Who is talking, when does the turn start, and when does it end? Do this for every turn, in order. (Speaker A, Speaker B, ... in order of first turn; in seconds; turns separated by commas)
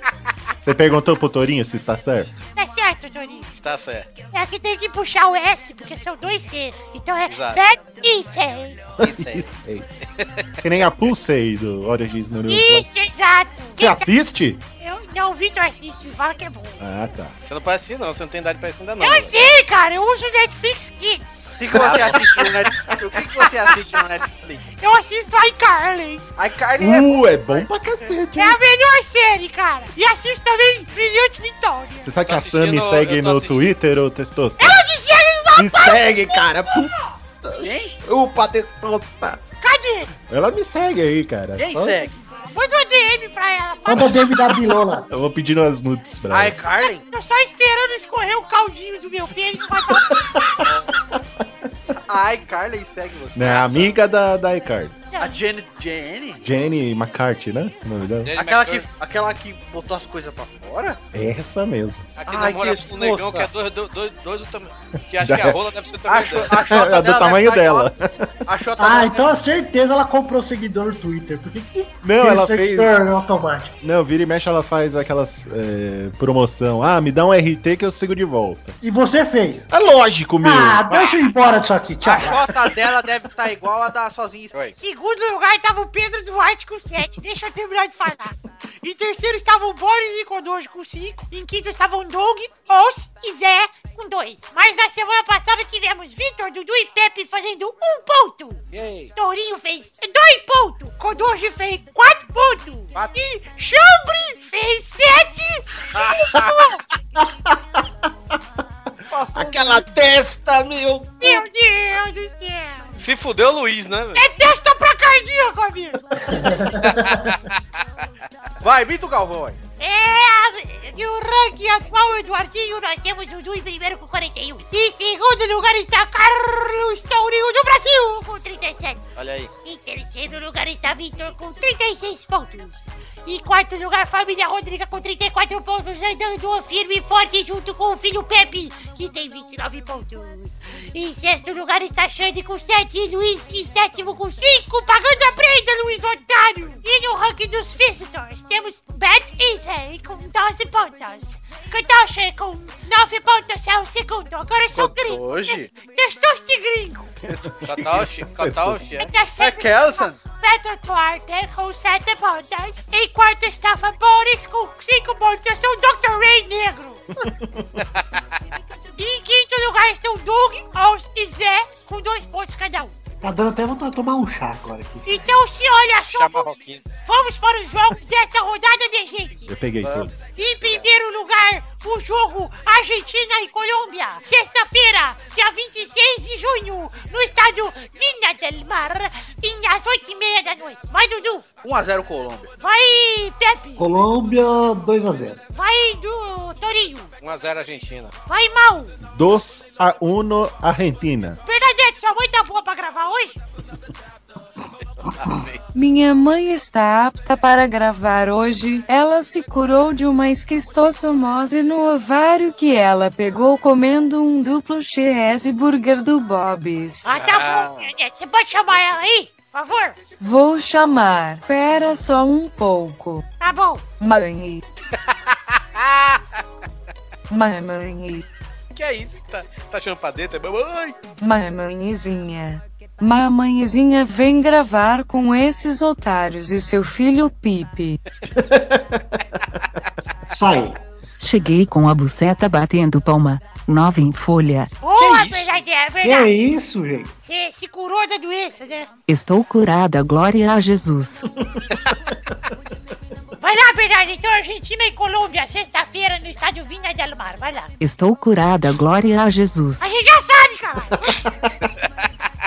Speaker A: 0.6-2.4, Speaker B: 2.5-3.5, Speaker C: 3.5-4.1, Speaker B: 4.3-8.9, Speaker C: 7.3-7.6, Speaker A: 9.0-9.9, Speaker C: 9.0-9.5, Speaker C: 10.2-10.9, Speaker A: 10.6-12.9, Speaker B: 12.5-14.1, Speaker A: 13.8-14.6, Speaker B: 14.8-16.8, Speaker A: 16.8-17.4, Speaker C: 17.4-19.5, Speaker B: 19.0-21.3, Speaker D: 21.6-24.7, Speaker C: 21.7-22.6, Speaker A: 21.7-22.4, Speaker B: 24.8-26.3, Speaker D: 26.4-27.7, Speaker A: 26.8-28.6, Speaker B: 28.3-32.2, Speaker A: 32.0-34.8, Speaker C: 32.2-33.7, Speaker B: 34.6-37.1, Speaker A: 35.5-36.9, Speaker A: 37.4-39.4, Speaker D: 37.6-38.0, Speaker B: 39.6-40.1, Speaker A: 40.2-42.0, Speaker D: 41.5-42.1, Speaker B: 42.3-44.6, Speaker E: 43.9-45.0, Speaker A: 45.1-46.6, Speaker D: 46.3-47.0, Speaker B: 46.7-50.2, Speaker A: 50.0-50.7, Speaker D: 52.0-54.0, Speaker A: 53.3-55.0, Speaker B: 55.0-55.4, Speaker D: 55.2-56.5, Speaker A: 56.4-58.3, Speaker C: 58.2-58.9, Speaker D: 58.3-61.0, Speaker A: 61.1-62.1, Speaker C: 62.2-66.7, Speaker D: 62.3-63.5, Speaker A: 65.2-65.6, Speaker D: 66.0-67.9, Speaker A: 66.5-68.4, Speaker D: 68.5-69.3, Speaker E: 68.8-73.7, Speaker A: 72.0-72.9, Speaker A: 73.8-78.8, Speaker E: 78.8-79.7, Speaker A: 79.7-81.1, Speaker E: 80.4-82.5, Speaker D: 82.0-84.7, Speaker B: 84.7-98.6, Speaker D: 98.7-99.1, Speaker B: 99.2-106.8, Speaker A: 107.2-107.5, Speaker D: 109.1-109.8, Speaker A: 109.3-111.2, Speaker B: 111.2-113.0, Speaker C: 113.0-114.2, Speaker B: 114.1-116.0, Speaker E: 116.2-117.2, Speaker C: 116.8-117.5, Speaker D: 118.6-119.6, Speaker B: 119.8-129.0, Speaker C: 129.2-129.5, Speaker B: 129.6-157.2, Speaker D: 154.7-155.7, Speaker A: 157.3-158.8, Speaker C: 157.6-159.1, Speaker B: 158.9-167.0, Speaker D: 159.4-160.2, Speaker A: 167.2-167.7, Speaker B: 169.0-172.9, Speaker E: 173.2-175.1, Speaker B: 175.1-179.5, Speaker C: 176.1-176.8, Speaker A: 179.5-180.2, Speaker B: 180.2-191.4, Speaker D: 191.6-192.5, Speaker B: 192.6-193.9, Speaker E: 193.8-195.4, Speaker B: 195.5-197.1, Speaker C: 197.2-198.1, Speaker B: 198.3-199.0, Speaker A: 199.0-201.4, Speaker B: 201.4-203.4, Speaker C: 205.0-205.6, Speaker F: 205.7-217.1, Speaker B: 217.0-220.0, Speaker C: 217.1-217.9, Speaker F: 220.2-223.2, Speaker B: 223.4-223.9, Speaker F: 224.0-224.6, Speaker C: 225.8-226.2, Speaker F: 227.3-228.2, Speaker C: 228.7-230.9, Speaker F: 231.2-238.0, Speaker E: 240.3-240.8, Speaker G: 241.2-244.7, Speaker B: 244.8-246.3, Speaker E: 246.0-247.1, Speaker B: 247.2-248.9, Speaker G: 249.1-251.2, Speaker B: 253.4-257.7, Speaker G: 257.8-259.9, Speaker B: 259.8-261.3